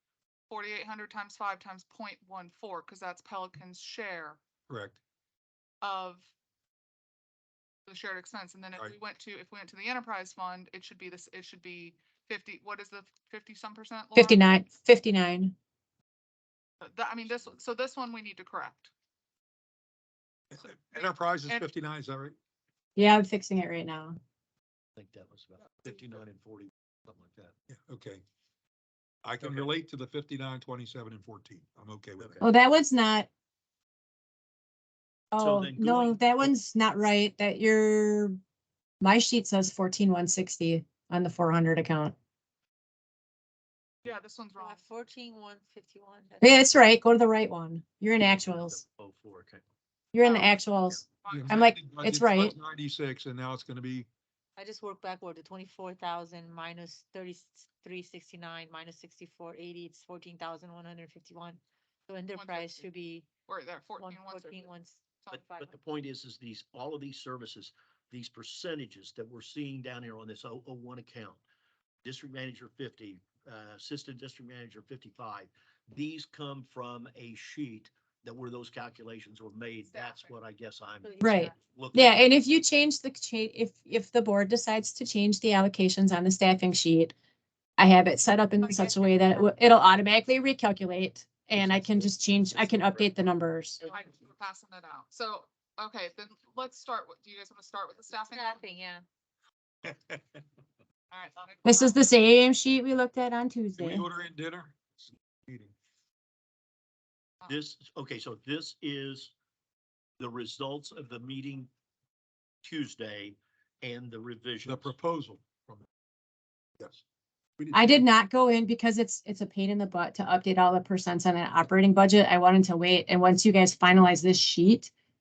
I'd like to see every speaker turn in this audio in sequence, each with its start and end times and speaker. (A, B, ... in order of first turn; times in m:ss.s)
0:00.5-0:04.4 A
0:04.7-0:05.0 B
0:05.8-0:06.3 A
0:07.9-0:14.5 A
0:14.2-0:15.5 C
0:16.8-0:18.9 A
0:20.5-0:22.4 B
0:23.0-0:24.2 C
0:25.0-0:27.5 D
0:27.7-0:28.2 B
0:29.2-0:32.4 B
0:32.2-0:32.5 D
0:32.4-0:33.3 C
0:35.3-0:38.4 C
0:35.4-0:36.5 D
0:39.0-0:42.2 C
0:44.0-0:44.8 A
0:44.6-0:46.6 E
0:46.4-0:48.8 C
0:48.2-0:49.6 D
0:50.1-0:52.5 C
0:51.2-0:51.6 A
0:51.3-0:54.1 B
0:54.6-1:03.3 E
1:02.3-1:02.9 A
1:03.5-1:04.7 A
1:04.0-1:05.7 E
1:05.3-1:11.4 D
1:12.0-1:21.1 D
1:19.9-1:20.3 A
1:21.0-1:21.6 E
1:21.2-1:27.1 C
1:21.7-1:22.3 D
1:27.8-1:33.8 C
1:28.6-1:29.6 E
1:33.9-1:38.6 A
1:38.3-1:39.1 E
1:39.8-1:40.4 B
1:41.1-1:42.0 A
1:41.6-1:44.1 C
1:43.8-1:45.8 B
1:47.5-1:49.3 D
1:50.2-1:51.7 D
1:52.6-1:54.9 D
1:54.6-1:55.9 B
1:57.6-1:58.0 B
1:57.7-2:04.9 C